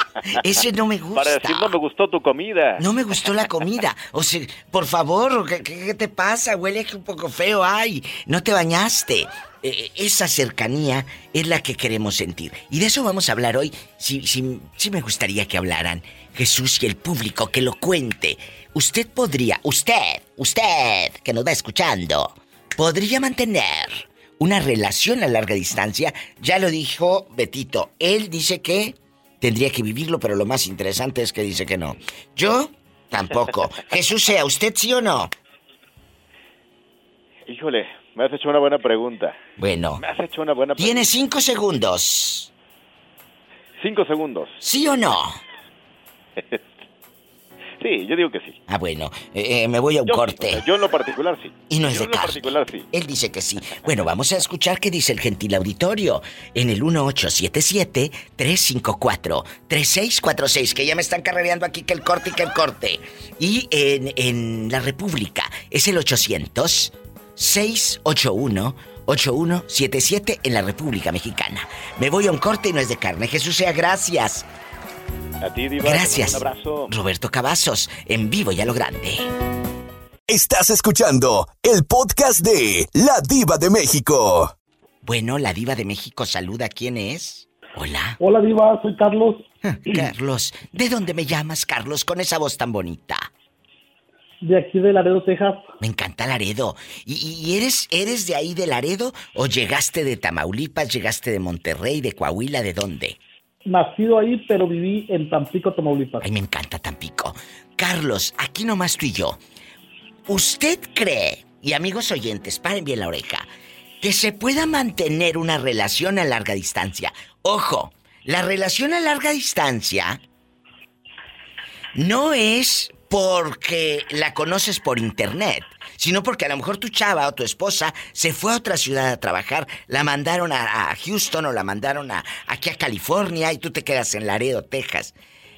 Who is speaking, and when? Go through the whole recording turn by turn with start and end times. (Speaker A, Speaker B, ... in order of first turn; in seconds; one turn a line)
Speaker A: 0.4-1.8
Speaker B: 1.1-2.8
Speaker A: 2.8-35.3
Speaker B: 37.5-39.4
Speaker A: 39.6-40.0
Speaker B: 40.0-41.1
Speaker A: 40.8-42.5
Speaker B: 43.8-44.6
Speaker A: 44.6-45.4
Speaker B: 46.4-46.7
Speaker B: 47.8-48.6
Speaker A: 48.7-50.6
Speaker B: 50.1-52.9
Speaker A: 51.7-74.5
Speaker B: 75.4-76.9
Speaker A: 75.8-79.3
Speaker C: 80.3-84.5
Speaker A: 85.0-88.2
Speaker D: 88.2-90.1
Speaker A: 89.6-93.3
Speaker D: 94.4-95.7
Speaker A: 95.8-103.2
Speaker D: 103.7-106.3
Speaker A: 106.2-109.4
Speaker A: 110.3-113.5
Speaker A: 114.0-120.2
Speaker A: 122.0-135.1